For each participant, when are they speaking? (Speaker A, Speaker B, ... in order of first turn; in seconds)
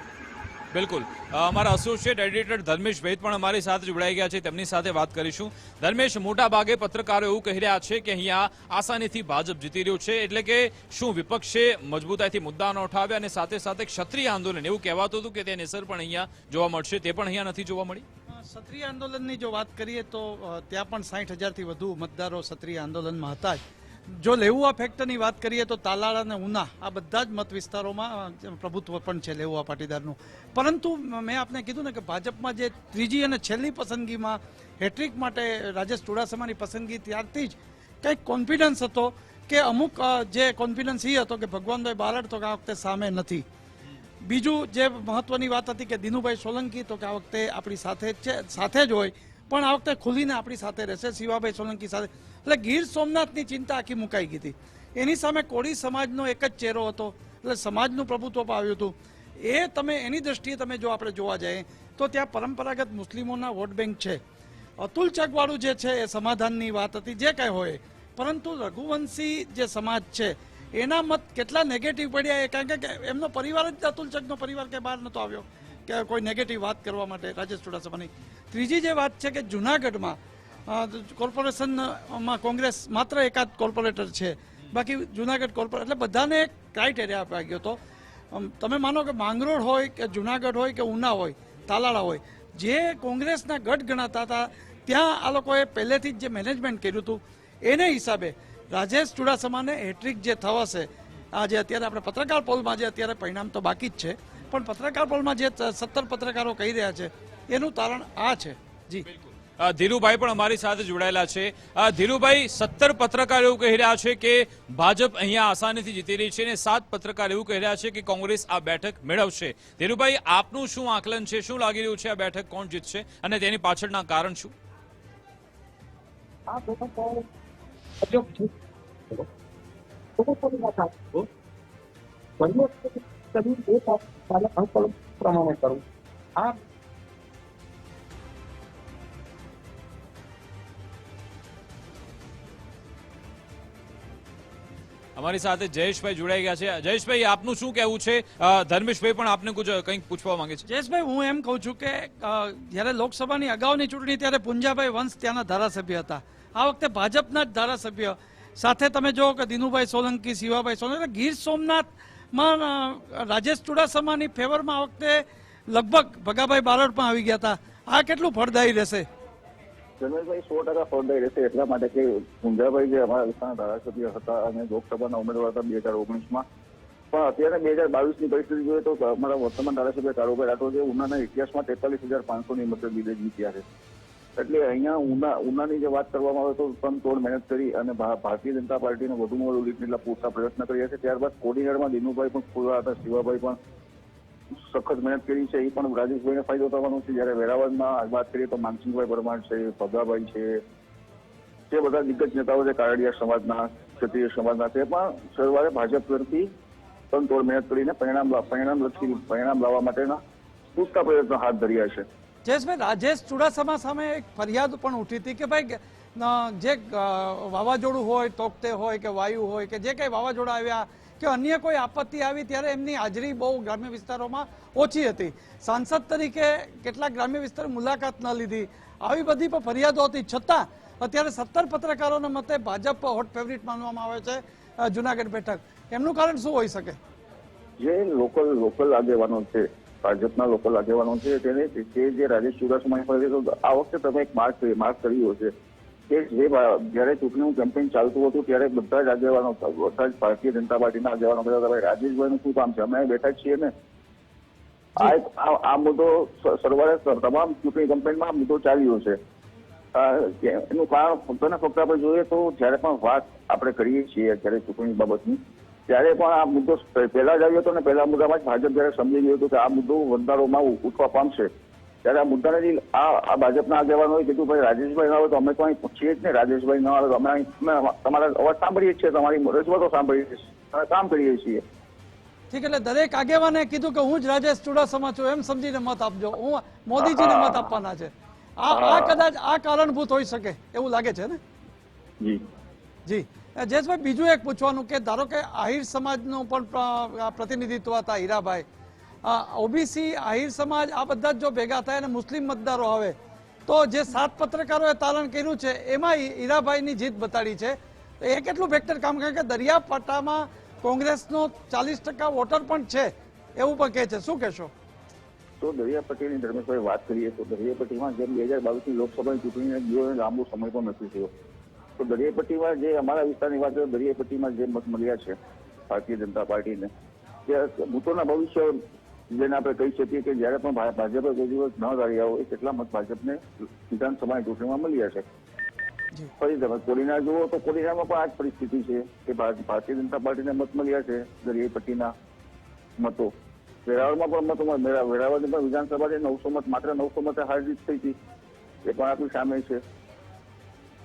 Speaker A: 0.7-18.1, 109.1-124.5, 145.2-150.7
Speaker B: 18.3-43.5, 44.2-64.2, 64.8-87.8, 88.3-109.1, 150.7-169.1, 212.5-237.0, 282.5-291.4, 293.1-298.6, 299.2-303.1, 303.7-314.7
Speaker C: 126.5-127.3, 128.0-128.5, 130.2-131.2, 132.4-135.8
Speaker D: 170.0-176.5, 177.1-183.7, 184.4-193.6, 194.7-200.6, 201.7-206.5, 207.1-210.2, 210.7-212.1, 237.8-245.5, 246.1-253.7, 255.0-259.2, 259.9-271.5, 272.0-281.6, 287.0-287.7, 288.7-289.2, 315.6-321.3, 322.0-325.4, 325.9-326.9, 327.5-335.3, 336.4-342.1, 343.0-343.3, 343.9-348.2, 348.8-349.8